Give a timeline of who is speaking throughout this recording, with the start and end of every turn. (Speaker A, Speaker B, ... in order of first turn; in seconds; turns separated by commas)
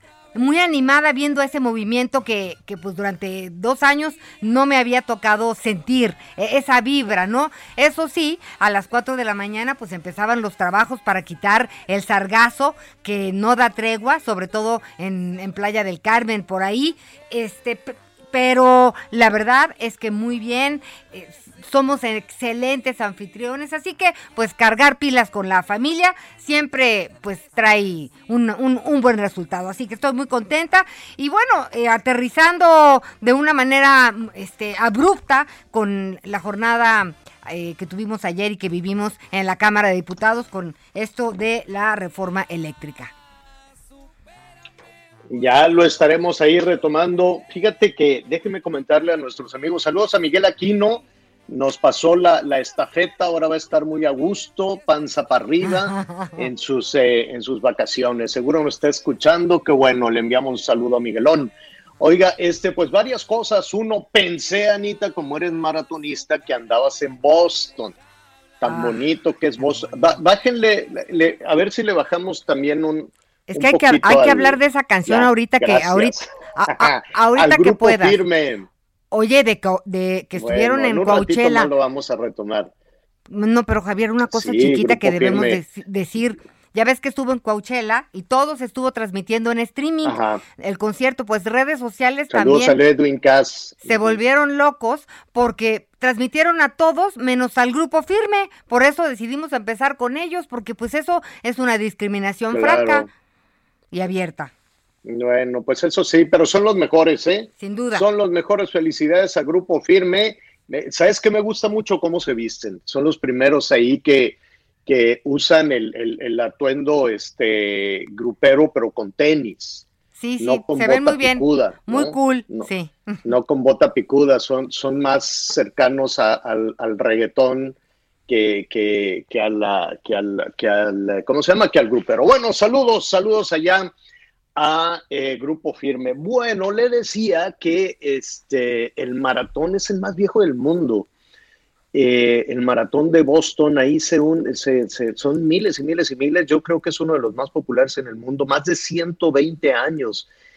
Speaker A: 0.3-43.1, Speaker B: 45.3-68.0, Speaker A: 55.6-56.5, Speaker B: 68.6-78.7, Speaker A: 68.7-69.0, Speaker A: 73.5-78.2, Speaker A: 79.1-81.7, Speaker B: 80.4-82.7, Speaker A: 83.3-92.8, Speaker B: 84.3-85.6, Speaker B: 90.0-90.4, Speaker B: 92.3-94.2, Speaker A: 93.8-103.1, Speaker B: 102.5-103.1, Speaker A: 103.9-104.5, Speaker B: 105.0-119.8, Speaker A: 107.6-108.1, Speaker A: 120.2-123.3, Speaker B: 120.4-122.7, Speaker B: 123.2-127.8, Speaker B: 128.3-133.9, Speaker B: 134.6-141.1, Speaker B: 141.9-150.3